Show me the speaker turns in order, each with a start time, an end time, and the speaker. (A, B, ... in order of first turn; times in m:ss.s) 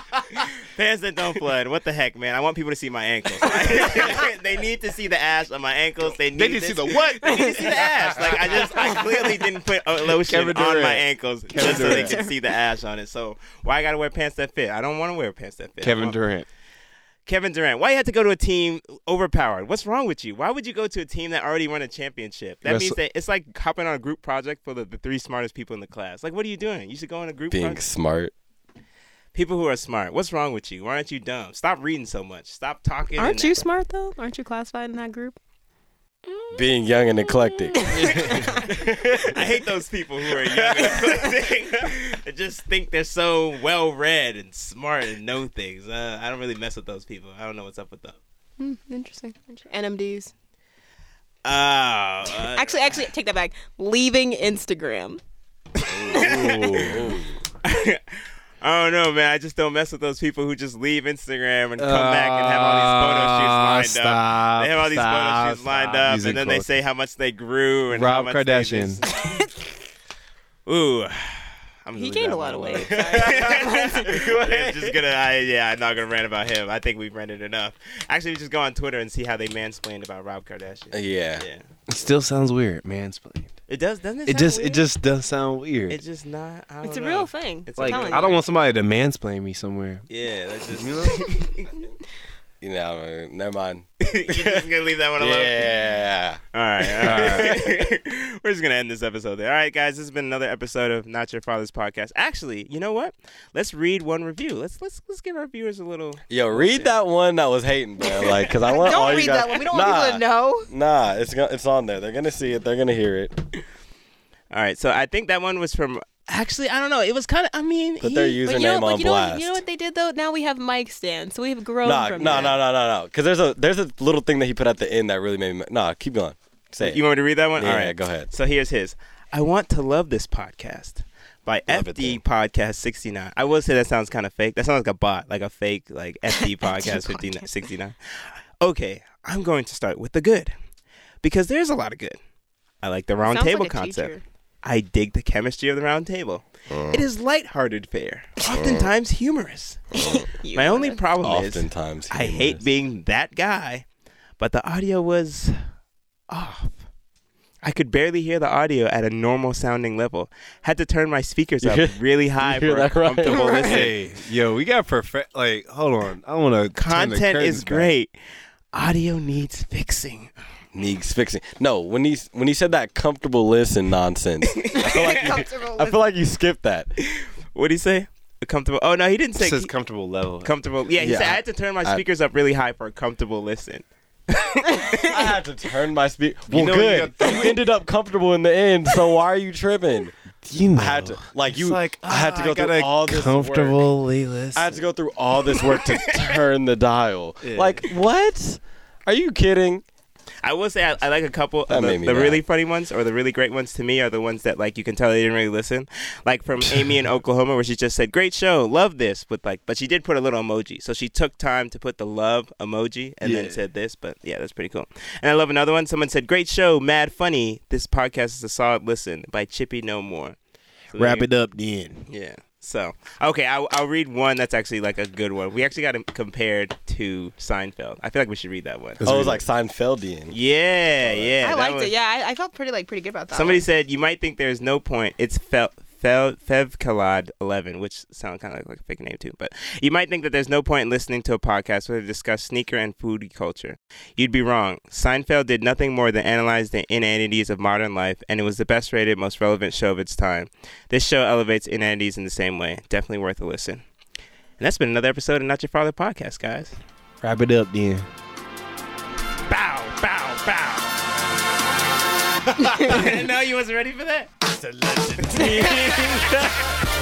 0:00.3-0:16.2 A
0:06.3-0:08.9 B
0:10.1-0:12.2 B
0:11.6-0:12.3 C
0:15.8-0:16.5 B
0:17.2-0:27.8 A
0:22.6-0:23.0 B
0:27.5-0:28.3 D
0:29.3-0:33.6 A
0:33.2-0:35.4 C
0:36.3-0:36.6 C
0:36.5-0:39.6 D
0:37.3-0:38.6 C
0:38.0-0:38.6 A
0:38.0-0:38.6 B
0:39.2-0:48.2 A
0:40.3-0:41.3 D
0:48.6-0:50.3 C
0:51.4-0:53.0 A
0:52.4-0:55.2 C
0:55.9-0:57.4 D
0:56.1-0:56.9 A
0:56.1-0:57.1 B
0:57.6-1:09.2 A
1:01.8-1:06.7 B
1:07.9-1:09.0 B
1:09.1-1:09.5 C
1:10.6-1:21.6 A
1:11.9-1:14.1 C
1:12.7-1:15.0 D
1:20.9-1:21.4 D
1:21.9-1:23.5 B
1:23.7-1:24.9 A
1:24.2-1:26.0 B
1:25.9-1:28.4 A
1:26.8-1:28.4 C
1:27.8-1:30.0 B
1:30.1-1:31.7 A
1:30.7-1:31.5 B
1:32.6-1:37.9 D
1:34.0-1:35.8 A
1:36.5-1:46.9 A
1:37.0-1:37.6 B
1:46.3-1:53.3 D
1:48.6-1:50.7 C
1:54.5-1:58.4 A
1:58.0-1:59.6 D
1:58.4-2:02.6 C
2:01.8-2:07.0 D
2:02.2-2:02.5 A
2:06.8-2:20.5 A
2:07.6-2:08.3 D
2:11.7-2:12.2 D
2:16.6-2:17.4 C
2:21.2-2:22.2 A
2:22.8-2:33.8 A
2:23.2-2:24.2 C
2:26.7-2:27.0 D
2:28.5-2:28.9 D
2:30.0-2:30.2 D
2:30.0-2:31.0 C
2:31.2-2:32.6 D
2:34.4-2:35.6 A
2:36.3-2:36.8 A
2:37.6-2:43.9 A
2:41.6-2:43.9 D
2:43.2-2:47.9 B
2:43.2-2:43.7 C
2:46.8-2:48.1 A
2:48.7-2:50.3 A
2:50.7-2:56.9 D
2:54.6-2:55.4 A
2:54.7-2:56.0 C
2:57.0-2:59.7 A
2:59.4-3:00.5 B
3:00.4-3:05.0 A
3:01.0-3:02.0 D
3:04.7-3:05.0 C
3:04.9-3:10.2 D
3:06.5-3:07.6 B
3:10.4-3:14.8 B
3:10.8-3:13.8 D
3:14.5-3:19.8 D
3:15.8-3:16.3 A
3:17.4-3:17.9 B
3:20.4-3:40.4 A
3:21.7-3:22.4 D
3:33.2-3:33.6 B
3:40.9-3:41.3 A
3:41.0-3:42.0 B
3:42.1-3:49.0 A
3:49.0-3:49.4 B
3:49.0-3:50.4 D
3:50.3-3:51.9 A
3:51.0-3:51.4 D
3:51.4-3:53.6 C
3:53.3-4:13.8 A
4:14.6-4:16.8 A
4:17.2-4:18.1 B
4:19.5-4:21.0 A
4:22.4-4:23.2 B
4:22.8-4:24.3 A
4:24.6-4:26.6 D
4:25.3-4:26.0 B
4:25.3-4:26.5 A